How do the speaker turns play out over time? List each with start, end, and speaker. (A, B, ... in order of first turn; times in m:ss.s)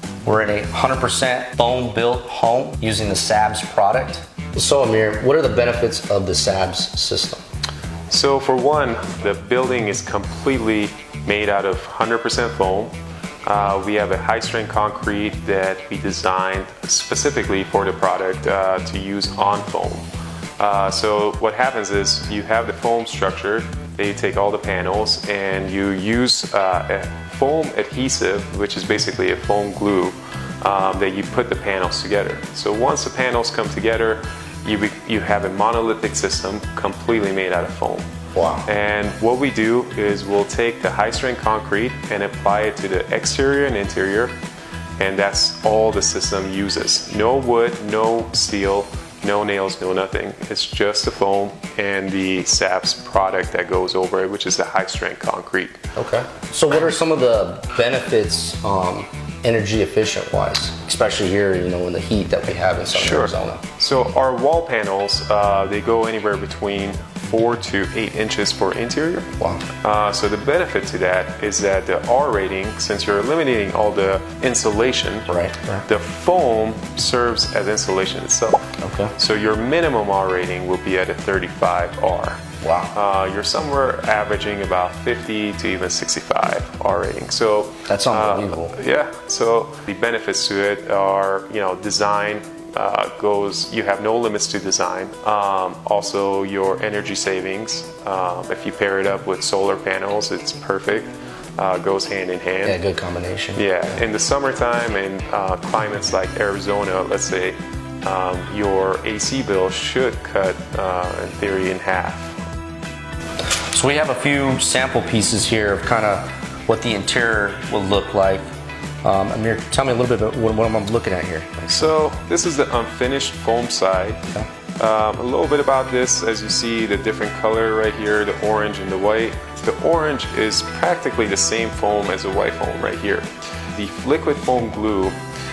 0:00.2-0:07.4 A
0:08.1-0:20.1 B
0:20.6-0:38.1 B
0:38.4-0:38.7 A
0:38.6-0:44.4 B
0:45.0-0:55.8 B
0:56.0-1:03.6 A
1:02.9-1:15.3 B
1:15.3-1:15.8 A
1:15.9-1:22.4 B
1:18.8-1:19.1 A
1:22.6-1:22.9 A
1:22.9-1:42.8 B
1:27.9-1:28.8 A
1:42.6-1:43.6 A
1:43.6-1:52.4 B
1:53.7-2:01.8 A
2:01.7-2:04.2 B
2:04.8-2:15.2 B